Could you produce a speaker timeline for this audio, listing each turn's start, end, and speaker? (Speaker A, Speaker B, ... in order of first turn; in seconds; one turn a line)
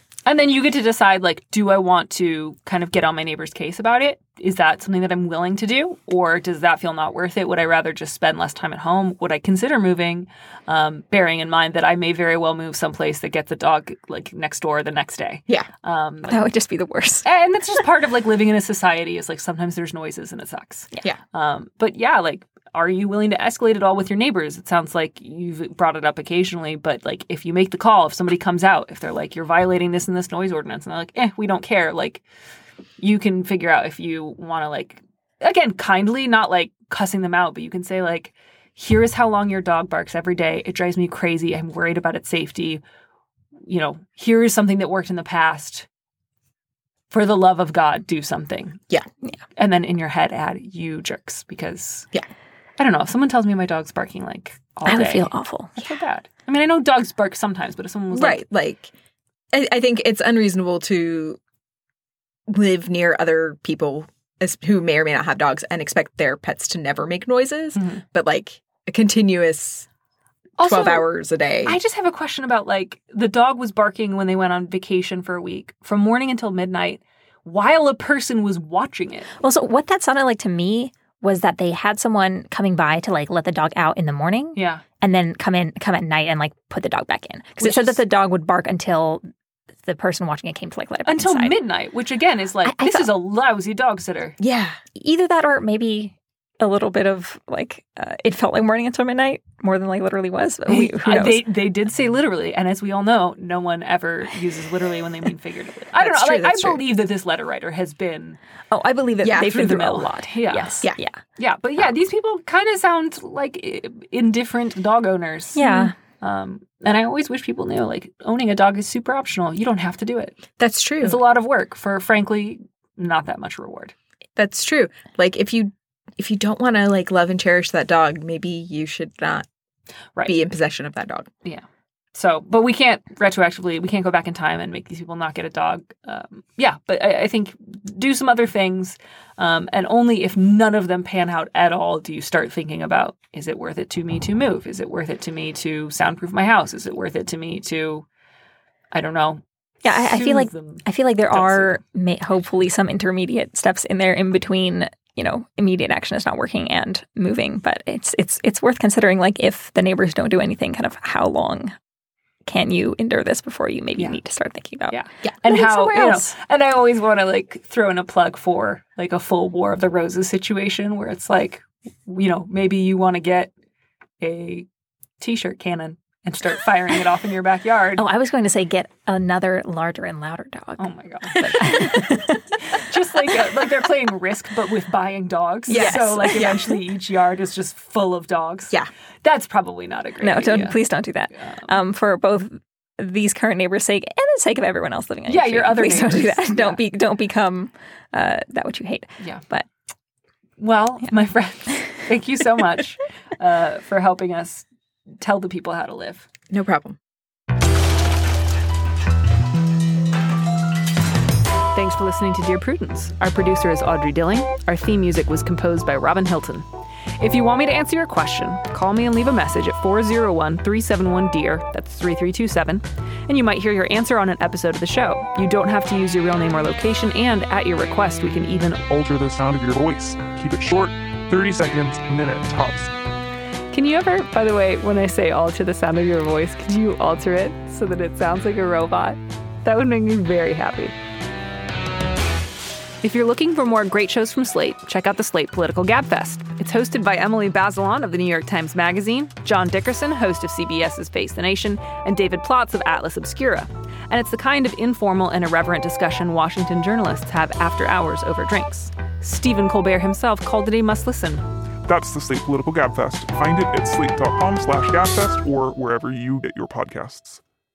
Speaker A: 0.3-16.4
Speaker B: 16.3-17.2
Speaker A: 17.2-32.2
Speaker A: 33.0-42.8
Speaker A: 43.7-45.9
Speaker A: 47.1-48.8
Speaker A: 49.6-52.1
Speaker A: 52.8-58.4
Speaker B: 54.9-55.9
Speaker C: 58.1-58.9
Speaker C: 59.5-61.4
Speaker C: 62.5-69.9
Speaker A: 67.8-68.0
Speaker A: 70.6-71.1
Speaker C: 70.6-71.8
Speaker A: 71.6-79.3
Speaker B: 79.4-89.3
Speaker A: 84.5-84.8
Speaker C: 87.6-88.0
Speaker B: 89.8-91.6
Speaker A: 91.1-94.4
Speaker B: 92.7-93.1
Speaker C: 94.4-94.8
Speaker B: 95.0-101.4
Speaker A: 100.7-108.4
Speaker C: 106.0-106.8
Speaker B: 108.7-111.2
Speaker A: 109.2-110.8
Speaker C: 109.2-109.6
Speaker A: 111.4-120.4
Speaker B: 115.6-115.9
Speaker C: 120.6-121.2
Speaker A: 121.0-123.9
Speaker C: 124.4-129.5
Speaker C: 130.2-131.3
Speaker A: 132.2-148.1
Speaker A: 148.9-151.8
Speaker B: 149.8-161.8
Speaker B: 162.5-166.3
Speaker A: 164.9-173.5
Speaker A: 174.2-174.7
Speaker A: 175.2-178.0
Speaker B: 178.0-182.4
Speaker A: 180.8-182.1
Speaker A: 182.7-190.8
Speaker C: 185.7-186.6
Speaker B: 185.7-186.7
Speaker B: 190.2-199.7
Speaker A: 191.4-191.7
Speaker A: 195.3-196.8
Speaker A: 200.6-204.7
Speaker A: 205.2-206.3
Speaker C: 206.5-207.0
Speaker A: 211.7-216.7
Speaker A: 217.2-228.8
Speaker D: 228.9-232.9
Speaker A: 233.7-240.9
Speaker A: 243.0-261.4
Speaker D: 261.9-267.4